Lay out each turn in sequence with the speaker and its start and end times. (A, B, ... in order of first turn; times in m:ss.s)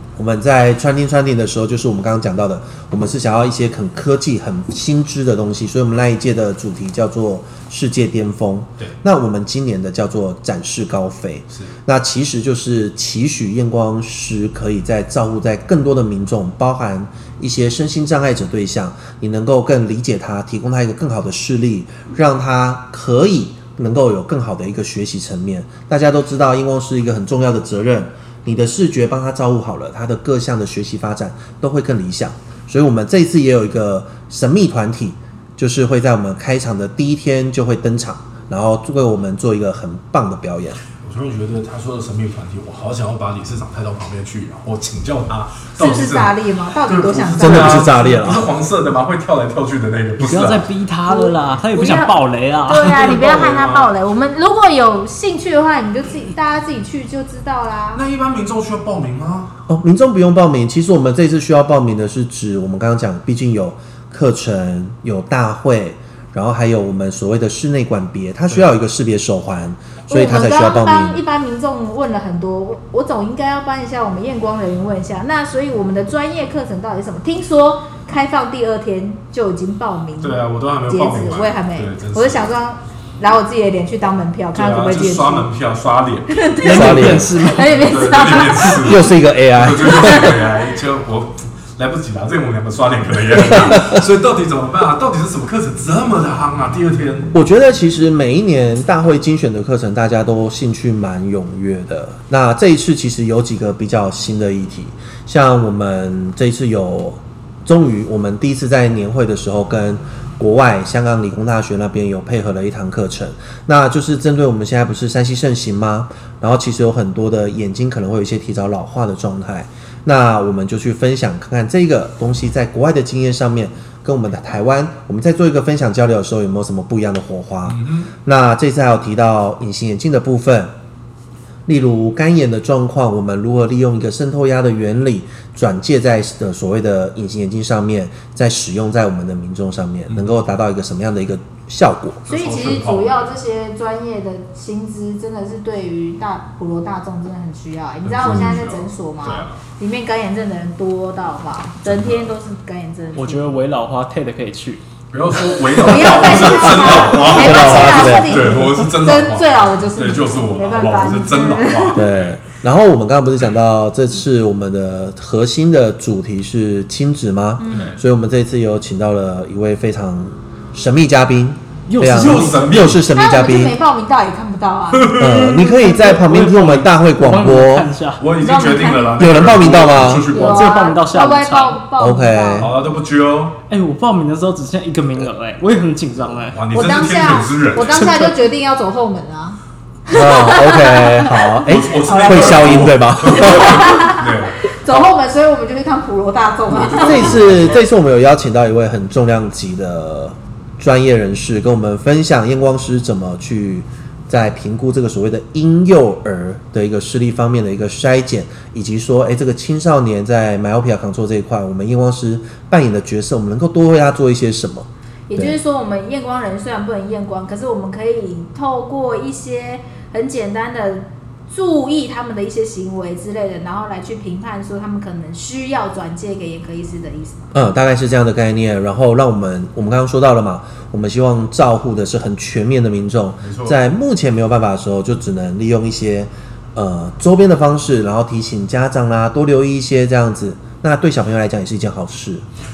0:00.2-0:40.8 A
0:41.0-0:50.7 B
0:45.8-0:47.9 C
0:47.4-0:48.5 A
0:50.2-0:53.1 D
0:51.1-0:58.0 C
0:52.8-0:53.9 B
0:58.0-0:59.6 B
0:59.7-1:11.2 A
1:10.1-1:25.5 C
1:20.2-1:22.5 B
1:24.5-1:26.5 B
1:26.3-1:29.0 C
1:26.6-1:28.0 D
1:26.7-1:27.4 A
1:27.7-1:37.3 B
1:28.8-1:30.4 A
1:30.0-1:30.3 C
1:33.5-1:34.0 A
1:37.3-2:10.7 A
2:07.7-2:08.1 B
2:11.7-2:22.2 A
2:22.3-2:23.4 B
2:22.3-2:33.5 C
2:28.0-2:29.6 B
2:31.9-2:32.3 B
2:33.2-2:34.8 D
2:35.1-2:42.4 B
2:35.7-2:42.0 C
2:36.9-2:38.6 A
2:42.0-2:53.8 A
2:47.6-2:47.9 C
2:47.7-2:48.0 B
2:51.9-2:52.8 D
2:52.1-2:53.0 B
2:53.1-2:55.7 C
2:54.9-2:55.6 B
2:55.2-2:57.9 A
2:55.5-2:58.2 D
2:58.2-3:00.7 B
2:58.4-3:02.7 C
2:59.2-3:00.3 A
3:00.3-3:01.8 D
3:02.0-3:02.7 A
3:02.6-3:03.6 B
3:03.7-3:06.6 D
3:06.5-3:08.1 B
3:06.7-3:17.5 C
3:07.9-3:08.3 D
3:10.1-3:14.0 A
3:11.6-3:14.6 B
3:16.7-3:17.8 B
3:17.0-3:35.6 A
3:35.3-3:47.6 C
3:47.5-4:02.4 A
3:53.4-3:53.8 B